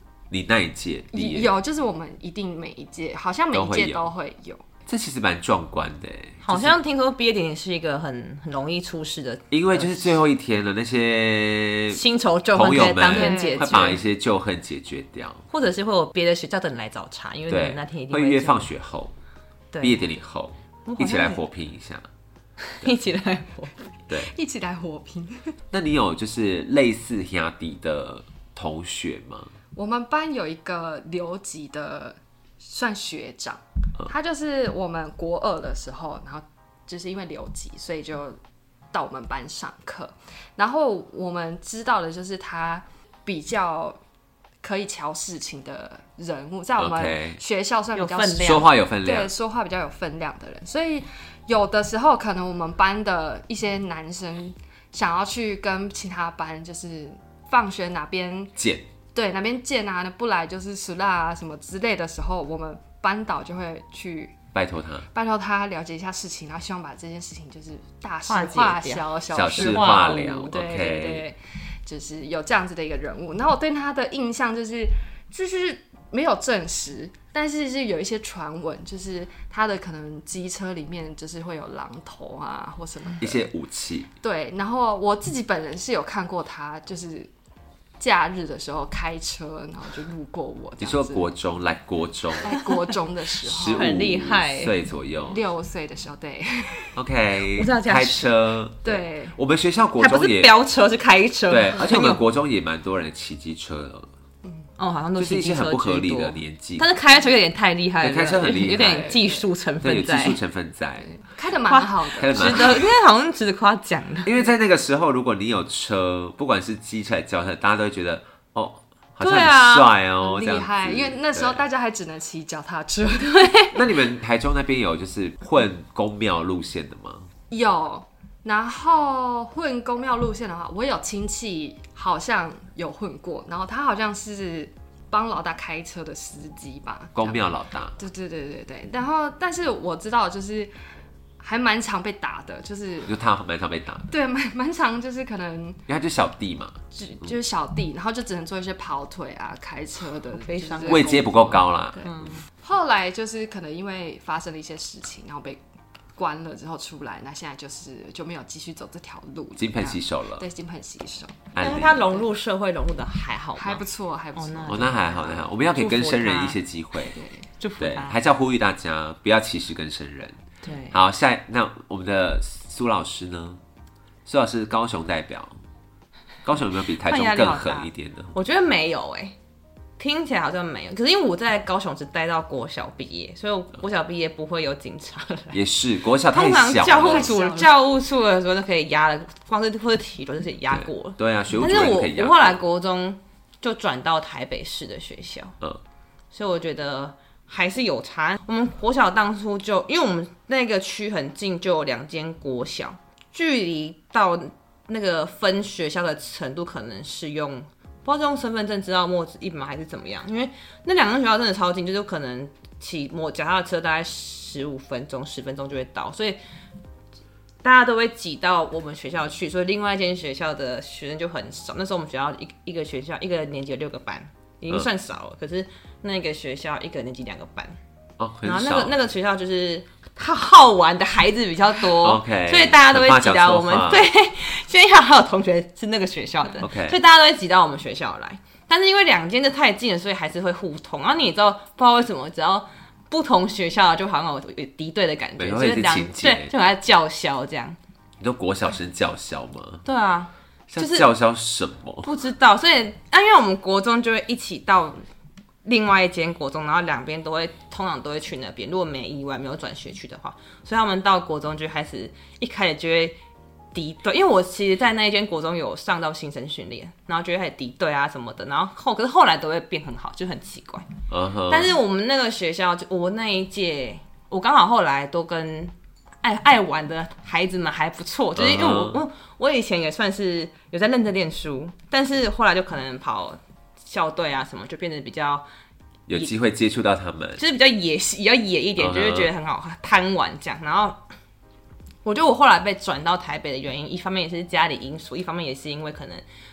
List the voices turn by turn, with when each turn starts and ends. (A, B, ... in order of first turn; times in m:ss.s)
0:00.3-0:01.5 A
0:01.1-0:04.6 B
0:03.5-0:04.1 A
0:04.9-0:06.8 A
0:06.4-0:10.2 C
0:09.5-0:15.4 A
0:11.9-0:14.0 C
0:12.9-0:14.0 B
0:15.5-0:18.7 C
0:17.5-0:19.1 A
0:19.7-0:20.0 C
0:19.8-0:22.0 A
0:20.9-0:21.4 C
0:22.7-0:23.8 C
0:24.1-0:25.6 B
0:25.7-0:29.5 A
0:29.8-0:38.4 B
0:38.9-0:44.0 B
0:44.6-0:58.5 B
0:46.8-0:47.4 A
0:48.0-0:48.7 C
0:48.4-0:49.3 A
0:58.6-0:58.9 A
0:59.1-1:04.4 B
1:04.5-1:05.1 A
1:05.1-1:23.5 B
1:08.3-1:10.5 C
1:09.3-1:11.2 A
1:23.2-1:24.1 A
1:24.2-1:27.3 B
1:28.0-1:31.3 B
1:30.8-1:32.5 A
1:32.4-1:33.9 B
1:33.4-1:35.4 A
1:33.6-1:34.7 C
1:35.3-1:37.0 B
1:37.0-1:40.5 A
1:37.6-1:38.3 C
1:38.8-1:39.4 B
1:40.0-1:42.2 C
1:41.5-1:44.1 A
1:44.8-1:50.4 C
1:45.2-1:46.9 A
1:48.0-1:49.1 A
1:48.4-1:49.5 B
1:49.8-1:51.1 A
1:51.0-1:52.8 B
1:51.7-1:54.3 C
1:52.2-1:52.9 A
1:54.2-2:01.6 A
1:59.2-1:59.9 C
2:00.2-2:03.6 B
2:03.2-2:03.8 C
2:03.7-2:07.3 A
2:07.5-2:17.5 B
2:17.2-2:18.0 A
2:18.0-2:20.7 B
2:21.4-2:23.2 B
2:23.1-2:24.1 A
2:24.1-2:25.8 B
2:25.9-2:27.3 A
2:26.9-2:35.6 B
2:30.4-2:31.2 C
2:30.8-2:32.3 A
2:32.0-2:32.4 C
2:36.2-2:42.2 B
2:39.6-2:40.4 A
2:41.6-2:42.1 A
2:41.6-2:46.6 C
2:43.6-2:45.4 B
2:44.7-2:47.2 A
2:47.1-2:47.5 B
2:47.6-2:48.2 C
2:47.8-2:50.4 A
2:50.6-2:51.0 C
2:50.9-2:53.6 A
2:54.2-2:55.6 A
2:56.4-2:58.3 A
2:57.0-2:59.4 C
3:00.0-3:05.6 C
3:05.5-3:07.4 A
3:06.3-3:15.6 C
3:06.9-3:07.7 B
3:10.7-3:12.6 A
3:16.3-3:36.4 C
3:37.6-3:47.8 C
3:48.2-3:49.0 A
3:48.4-4:07.8 C
3:52.0-3:54.1 A
3:56.6-3:57.0 A
4:05.4-4:06.5 A
4:08.2-4:09.8 A
4:09.8-4:11.1 C
4:10.7-4:12.1 A
4:12.0-4:15.0 C
4:15.6-4:23.2 C
4:23.7-4:30.9 C
4:31.1-4:31.7 A
4:31.5-4:45.4 C
4:38.4-4:39.0 A
4:46.1-4:47.4 A
4:47.4-4:51.0 C
4:48.8-4:49.3 A
4:52.0-4:56.2 C